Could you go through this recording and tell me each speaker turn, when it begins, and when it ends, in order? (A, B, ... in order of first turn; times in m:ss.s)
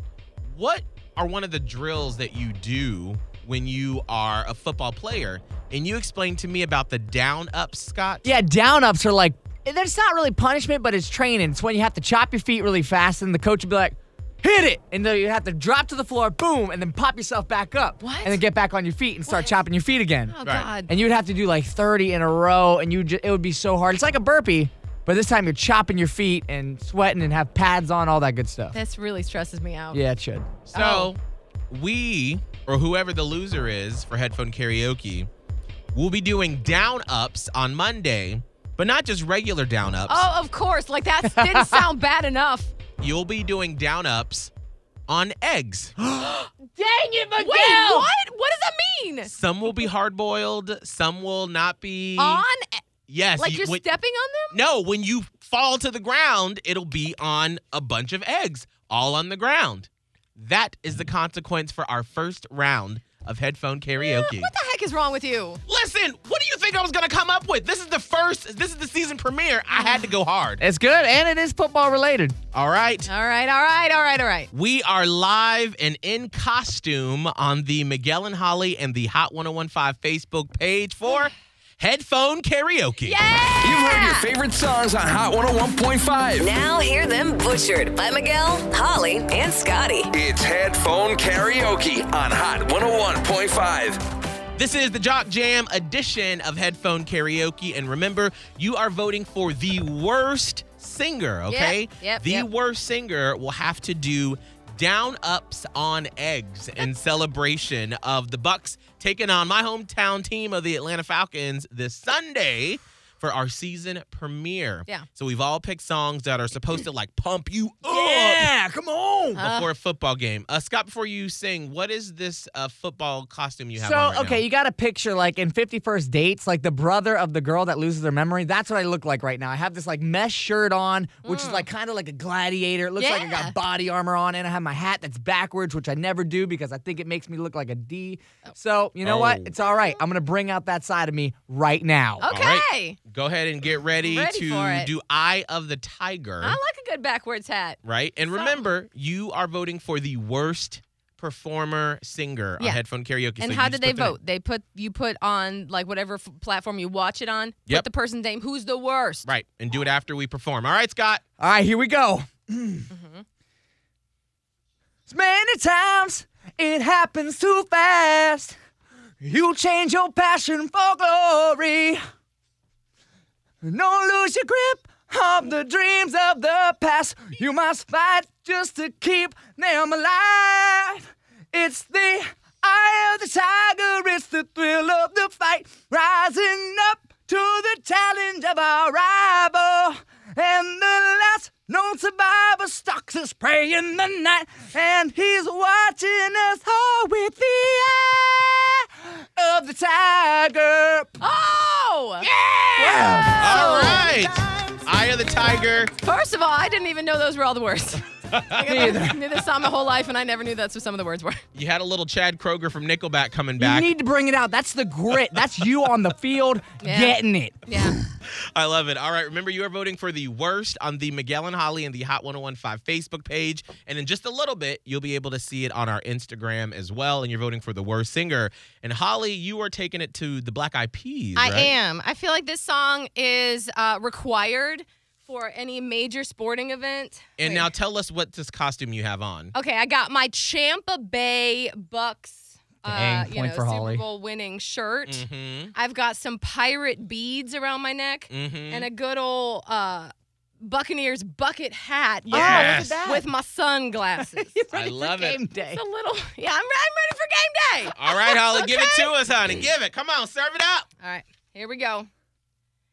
0:00.4-0:08.3 A
0:08.2-0:28.8 B
0:18.0-0:18.4 C
0:19.2-0:19.6 C
0:20.3-0:20.9 C
0:28.7-0:30.0 C
0:29.9-0:30.5 B
0:30.6-0:35.3 A
0:30.7-0:31.1 C
0:35.9-0:40.3 A
0:40.1-0:42.7 C
0:41.2-0:41.9 B
0:43.0-0:44.5 A
0:45.1-0:45.9 A
0:46.0-0:48.1 B
0:47.4-0:49.3 C
0:49.3-0:52.4 A
0:52.2-0:52.8 C
0:53.1-0:53.8 A
0:53.4-0:54.6 C
0:54.5-1:04.5 A
1:04.0-1:05.6 C
1:05.6-1:10.6 A
1:09.7-1:10.0 C
1:10.6-1:12.4 B
1:12.5-1:13.1 A
1:13.1-1:14.5 C
1:14.5-1:23.2 A
1:23.0-1:24.3 C
1:23.6-1:26.5 D
1:26.4-1:30.1 E
1:30.1-1:34.0 D
1:34.6-1:58.5 A
1:41.5-1:42.5 C
1:57.8-1:59.4 B
1:59.4-1:59.7 C
1:59.4-2:04.4 A
2:03.7-2:22.3 B
2:11.2-2:11.7 C
2:13.0-2:13.6 C
2:19.0-2:19.5 A
2:22.2-2:23.0 C
2:22.3-2:26.6 A
2:24.0-2:24.9 C
2:26.4-2:28.6 C
2:27.8-2:34.1 A
2:33.4-2:39.3 C
2:39.2-2:41.2 A
2:41.4-2:42.9 B
2:42.9-2:43.2 C
2:45.1-2:48.5 B
2:49.2-2:52.0 B
2:53.6-3:21.2 B
3:21.2-3:24.2 C
3:22.2-3:24.3 B
3:23.4-3:25.9 A
3:26.0-3:31.4 C
3:28.6-3:29.2 B
3:31.5-3:33.9 A
3:33.6-3:38.0 B
3:36.8-3:38.0 C
3:38.5-3:51.7 A
3:51.4-3:57.7 C
3:57.4-3:59.5 A
3:59.5-4:14.6 C
4:02.9-4:04.0 B
4:05.1-4:05.7 A
4:08.3-4:08.9 A
4:12.3-4:13.0 A
4:12.3-4:13.3 B
4:14.2-4:15.8 B
4:14.7-4:15.4 A
4:15.7-4:19.1 C
4:17.9-4:20.9 A
4:21.0-4:22.1 C